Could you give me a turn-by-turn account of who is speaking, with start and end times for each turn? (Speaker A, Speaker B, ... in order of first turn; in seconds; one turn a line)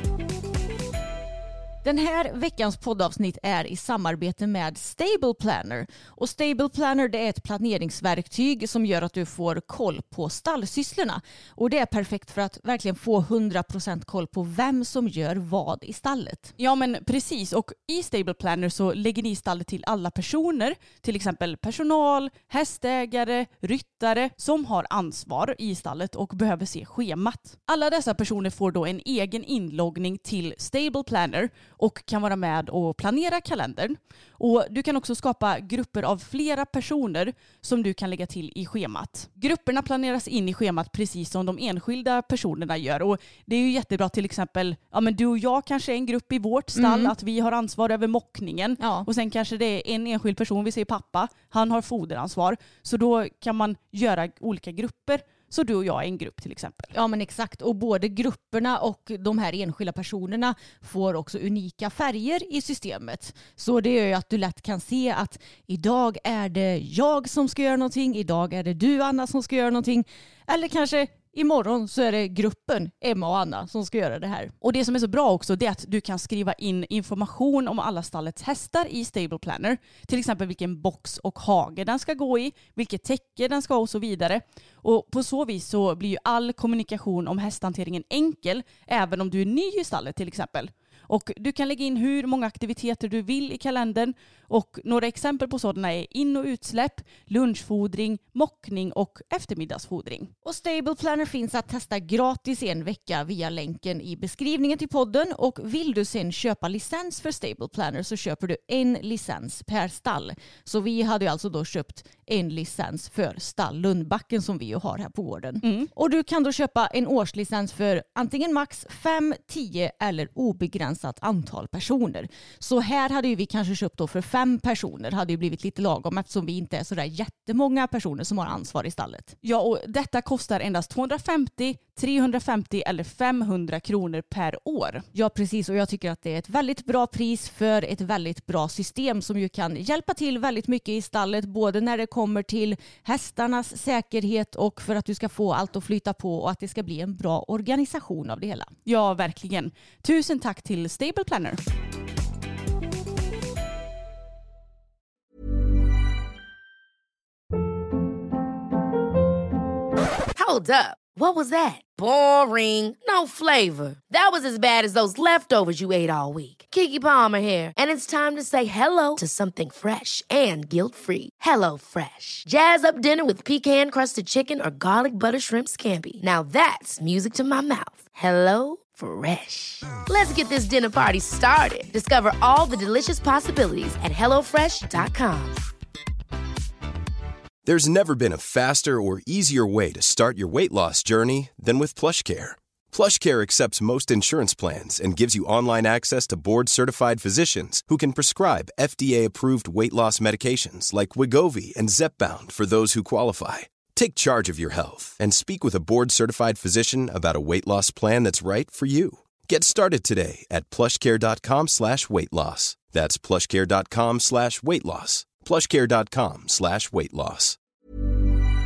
Speaker A: 1.8-16.5
Speaker B: 16.6-56.9
Speaker A: 46.8-47.1
Speaker A: 48.8-49.1
Speaker A: 56.9-74.5
Speaker B: 74.6-100.3
Speaker A: 100.4-129.3
Speaker B: 115.6-115.9
Speaker B: 129.4-135.1
Speaker A: 135.1-148.7
Speaker B: 148.9-151.6
Speaker C: 160.4-185.7
Speaker D: 187.7-217.6